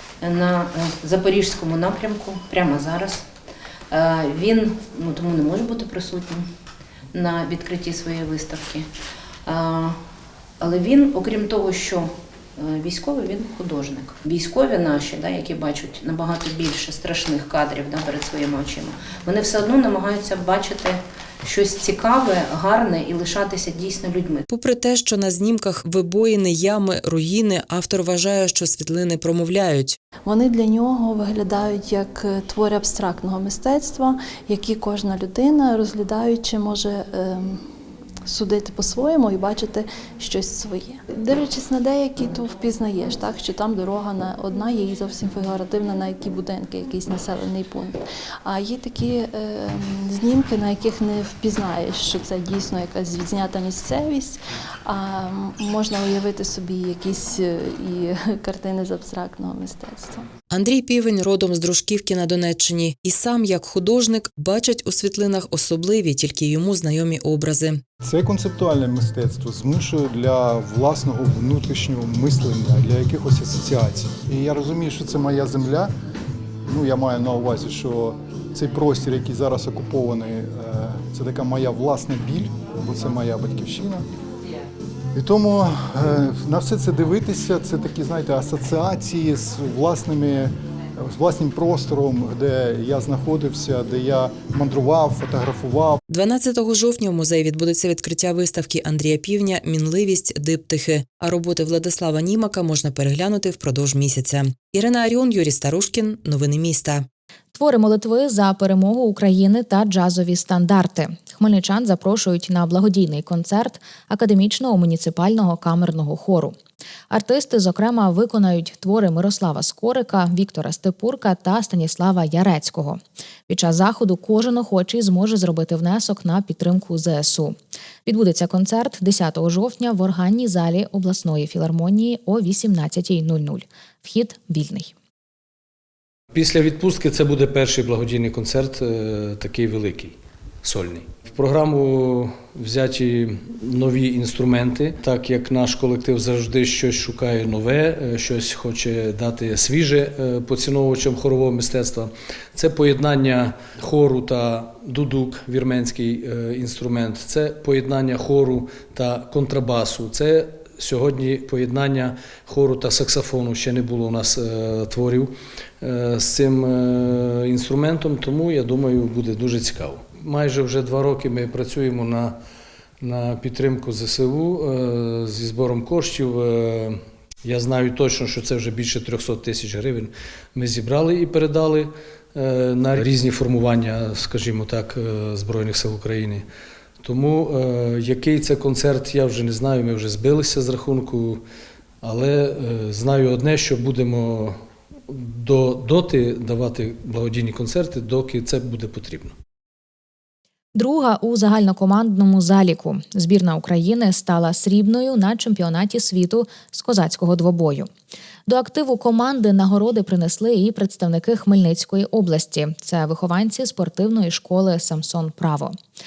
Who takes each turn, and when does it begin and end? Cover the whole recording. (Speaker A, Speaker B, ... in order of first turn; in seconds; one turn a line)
Speaker A: 0.2-3.2
Speaker A: 3.9-6.5
Speaker A: 7.1-8.9
Speaker A: 9.5-10.0
Speaker A: 10.6-24.4
Speaker B: 24.5-30.0
Speaker C: 30.2-37.6
Speaker C: 38.3-60.2
Speaker B: 60.5-67.8
Speaker D: 68.0-75.9
Speaker D: 76.7-84.0
Speaker D: 85.1-90.5
Speaker D: 91.0-96.0
Speaker B: 96.1-107.1
Speaker E: 107.5-116.6
Speaker E: 117.1-134.9
Speaker F: 136.3-172.4
Speaker F: 173.0-186.5
Speaker F: 187.0-191.4
Speaker F: 192.0-194.6
Speaker F: 195.1-199.3
Speaker E: 200.7-207.9
Speaker E: 208.5-215.8